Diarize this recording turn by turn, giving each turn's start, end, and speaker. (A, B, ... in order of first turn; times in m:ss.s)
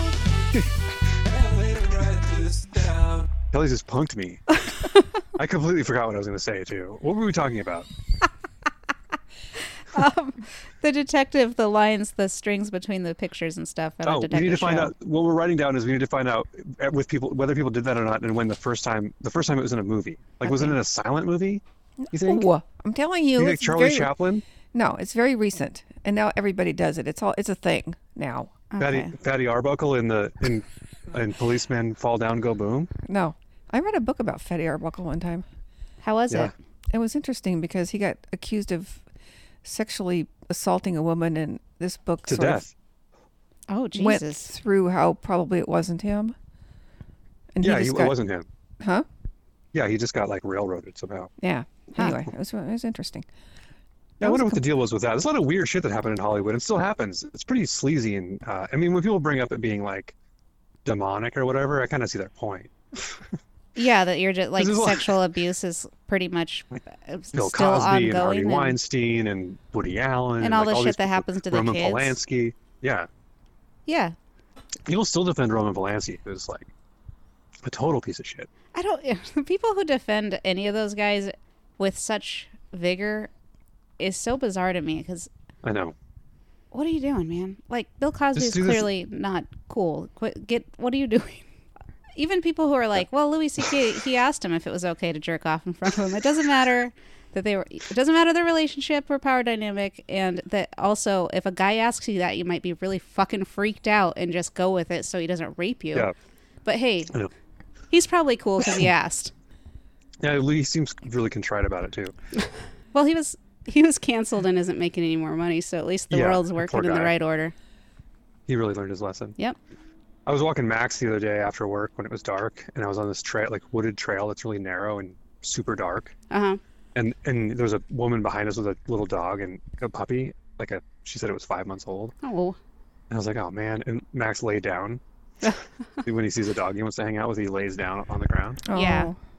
0:00.5-0:04.4 A
0:05.3-0:07.9 A
0:09.8-0:14.9 B
0:14.0-0:22.4 A
0:20.4-0:20.8 B
0:22.0-0:24.1 C
0:23.4-0:24.4 A
0:24.7-0:28.5 C
0:28.7-0:29.1 B
0:28.8-0:32.9 A
0:33.0-0:35.4 C
0:36.0-0:36.5 B
0:36.9-0:39.0 C
0:39.6-0:42.6 C
0:42.3-0:42.7 A
0:43.7-0:44.5 B
0:43.9-0:46.3 C
0:47.5-0:48.2 C
0:47.6-0:48.5 A
0:48.8-0:49.0 C
0:49.7-0:51.3 A
0:51.4-0:53.2 C
0:54.2-1:00.1 A
0:54.2-0:54.6 C
1:00.8-1:03.3 A
1:03.7-1:08.8 B
1:04.6-1:05.2 A
1:07.3-1:13.1 A
1:10.4-1:12.2 B
1:13.9-1:14.1 B
1:14.8-1:16.7 A
1:17.6-1:18.5 A
1:18.7-1:23.3 B
1:24.0-1:25.3 B
1:25.6-1:26.0 A
1:26.7-1:31.4 B
1:28.3-1:28.9 A
1:32.2-1:46.1 B
1:46.6-1:47.1 B
1:47.9-1:49.3 B
1:50.2-1:52.1 A
1:52.9-1:57.5 B
1:56.1-1:57.1 A
1:58.5-1:59.4 A
2:00.2-2:06.1 A
2:06.3-2:06.6 B
2:06.9-2:12.1 A
2:12.2-2:12.6 B
2:13.1-2:15.0 A
2:16.0-2:18.6 A
2:18.6-2:19.2 C
2:18.7-2:19.1 B